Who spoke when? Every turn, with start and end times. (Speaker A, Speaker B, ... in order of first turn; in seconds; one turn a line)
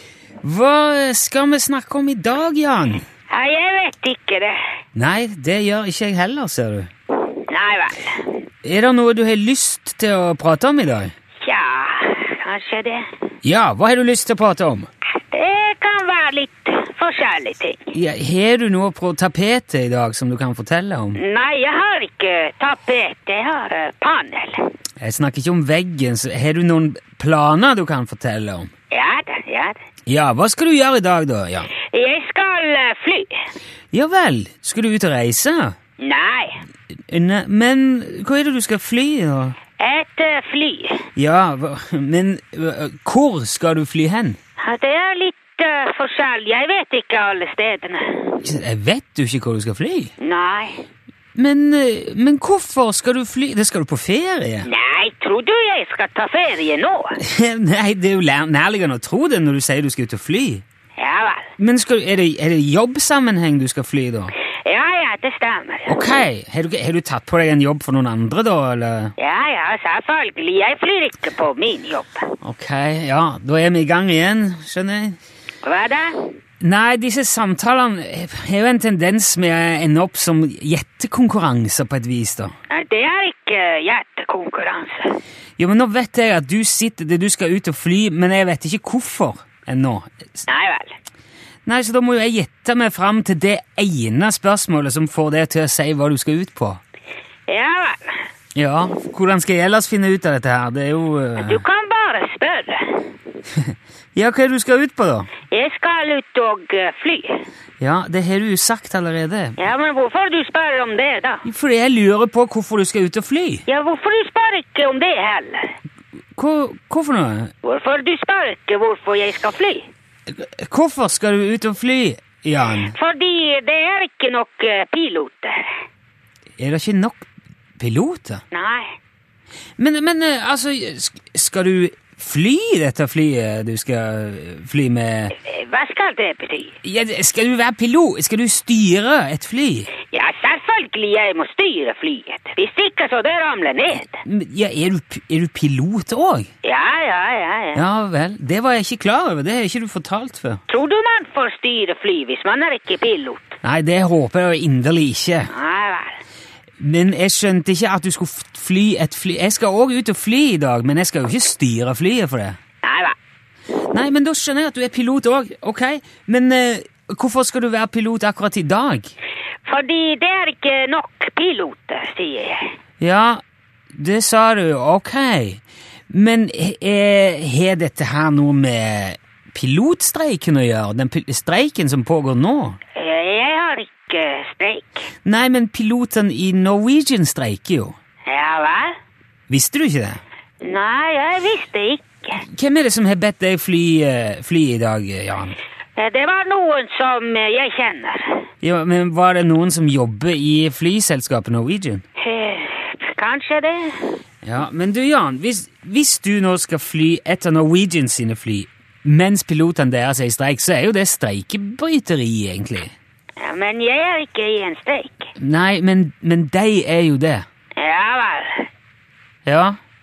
Speaker A: 0.4-3.0
Speaker B: 3.3-4.6
Speaker A: 5.0-6.9
Speaker B: 7.4-8.4
Speaker A: 8.6-11.1
Speaker B: 11.4-13.1
Speaker A: 13.4-14.9
Speaker B: 15.3-17.9
Speaker A: 17.9-21.2
Speaker B: 21.2-24.7
Speaker A: 25.0-28.7
Speaker B: 28.9-29.8
Speaker A: 30.1-31.7
Speaker B: 31.9-33.5
Speaker A: 33.9-35.8
Speaker B: 36.0-36.6
Speaker A: 37.1-39.6
Speaker B: 39.8-41.1
Speaker A: 41.2-44.4
Speaker B: 44.6-48.4
Speaker A: 48.4-50.1
Speaker B: 50.2-50.8
Speaker A: 51.4-54.7
Speaker B: 54.6-57.2
Speaker A: 57.2-60.6
Speaker B: 61.0-61.5
Speaker A: 61.6-64.3
Speaker B: 64.7-66.0
Speaker A: 65.9-69.1
Speaker B: 69.2-72.4
Speaker A: 72.4-75.2
Speaker B: 75.6-76.3
Speaker A: 76.6-82.5
Speaker B: 82.7-85.2
Speaker A: 85.6-90.4
Speaker B: 90.5-91.0
Speaker A: 91.7-96.8
Speaker B: 97.5-98.2
Speaker A: 98.5-101.6
Speaker B: 101.4-103.1
Speaker A: 104.2-105.3
Speaker B: 105.5-107.4
Speaker A: 107.8-109.6
Speaker B: 109.6-111.5
Speaker A: 111.5-113.6
Speaker B: 113.7-115.8
Speaker A: 116.4-117.5
Speaker B: 117.6-119.9
Speaker A: 120.3-123.0
Speaker B: 122.9-125.8
Speaker A: 126.6-127.2
Speaker A: 127.8-128.4
Speaker B: 128.5-128.9
Speaker A: 129.8-135.3
Speaker B: 135.3-136.8
Speaker A: 136.8-139.9
Speaker B: 140.1-144.2
Speaker A: 144.2-146.5
Speaker B: 146.6-147.8
Speaker A: 147.8-150.6
Speaker B: 150.7-153.6
Speaker A: 153.6-155.5
Speaker B: 155.5-156.2
Speaker A: 156.8-162.6
Speaker B: 162.8-163.2
Speaker A: 163.9-169.1
Speaker B: 169.7-172.7
Speaker A: 173.0-173.4
Speaker A: 173.9-182.8
Speaker B: 182.9-185.1
Speaker A: 185.2-188.0
Speaker B: 188.3-189.0
Speaker A: 189.5-190.2
Speaker B: 190.6-192.4
Speaker A: 192.4-195.6
Speaker B: 196.0-198.4
Speaker A: 198.6-202.0
Speaker B: 202.2-204.2
Speaker A: 204.4-212.9
Speaker B: 213.4-215.3
Speaker A: 215.4-217.5
Speaker B: 217.8-218.7
Speaker A: 219.5-219.8